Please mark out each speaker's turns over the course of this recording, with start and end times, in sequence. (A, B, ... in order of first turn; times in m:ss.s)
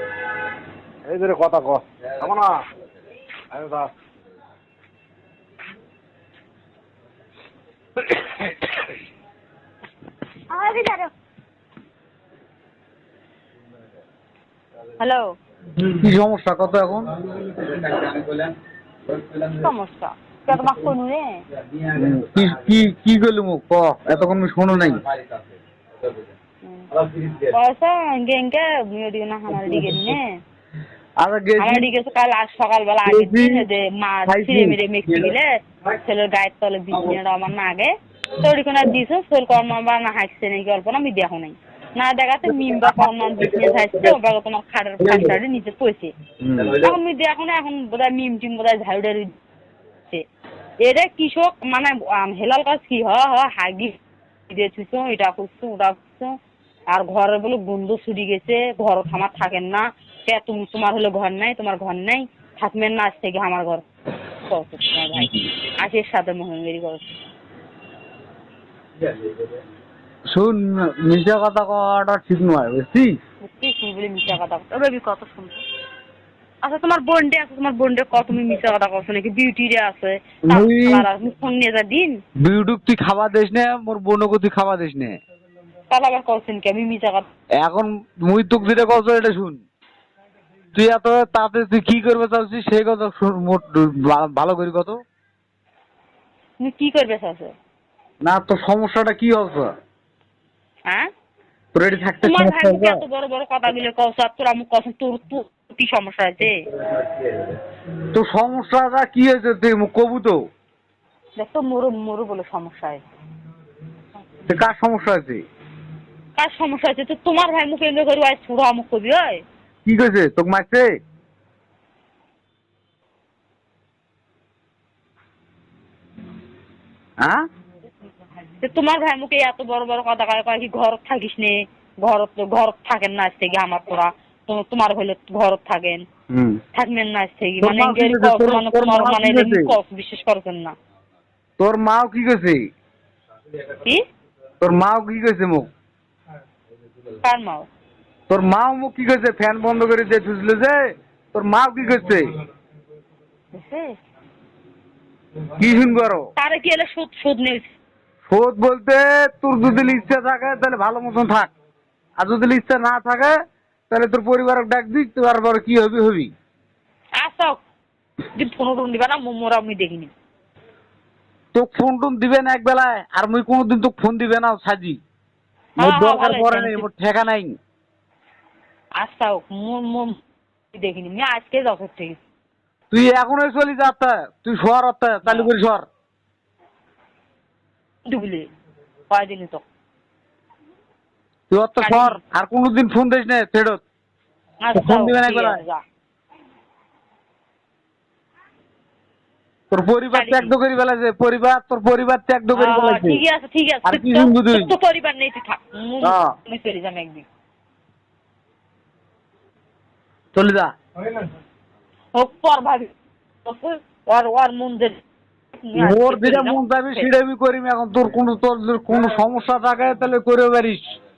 0:01.1-0:02.6 A
0:03.5-0:03.9 A
0:10.5-0:11.1 B
0:15.0-0:15.3 B
0:15.8-0:17.1 C
0:17.2-0:18.6 A
0:19.1-0:19.5 A
0:19.5-0:21.4 B
0:21.6-0:22.5 A
0:22.0-0:25.0 C
0:25.0-0:25.4 A
0:26.6-0:26.9 B
0:27.0-0:27.5 A
0:27.5-0:30.4 B
0:29.5-0:30.2 C
0:31.2-0:31.9 C
0:31.6-0:46.1 B
0:33.1-0:33.7 C
0:34.3-0:35.2 C
0:42.5-0:44.1 C
0:45.0-0:45.3 C
0:46.4-0:46.8 C
0:46.8-0:49.3 B
0:50.8-0:53.9 B
0:54.5-0:56.3 B
0:56.9-1:03.8 B
1:04.5-1:07.1 B
1:05.1-1:05.5 C
1:10.3-1:13.2 C
1:13.4-1:15.6 B
1:16.6-1:22.1 B
1:20.5-1:21.1 C
1:22.4-1:25.1 C
1:25.9-1:27.3 B
1:27.6-1:29.6 C
1:30.7-1:35.0 C
1:36.6-1:37.5 B
1:38.2-1:39.7 C
1:41.7-1:43.0 C
1:42.2-1:46.6 B
1:48.1-1:50.4 C
1:51.4-1:53.0 B
1:54.4-1:55.4 C
1:56.4-1:59.4 B
1:59.8-2:00.9 C
2:08.6-2:16.0 B
2:16.3-2:16.6 C
2:16.7-2:20.7 B
2:17.6-2:19.8 C
2:21.6-2:22.6 C
2:24.6-2:25.7 C
2:27.2-2:27.7 B
2:28.3-2:32.3 C
2:33.5-2:34.0 B
2:35.6-2:36.3 C
2:36.4-2:37.8 B
2:38.3-2:41.5 C
2:42.2-2:43.3 C
2:43.9-2:46.3 C
2:47.2-2:47.6 B
2:48.4-2:50.1 B
2:51.5-2:55.0 C
2:55.8-2:56.8 B
2:55.8-2:57.5 C
2:59.0-3:00.2 B
3:00.7-3:02.2 B
3:02.9-3:05.8 C
3:08.1-3:08.4 B
3:09.1-3:09.6 B
3:11.5-3:13.8 C
3:11.8-3:12.2 B
3:14.6-3:15.8 B
3:14.8-3:15.6 C
3:19.7-3:23.2 C
3:20.1-3:20.5 B
3:22.5-3:27.2 B
3:23.8-3:24.7 C
3:26.0-3:26.3 C
3:30.3-3:30.7 C
3:32.1-3:32.9 B
3:33.4-3:35.0 B
3:35.6-3:37.1 B
3:35.8-3:40.8 C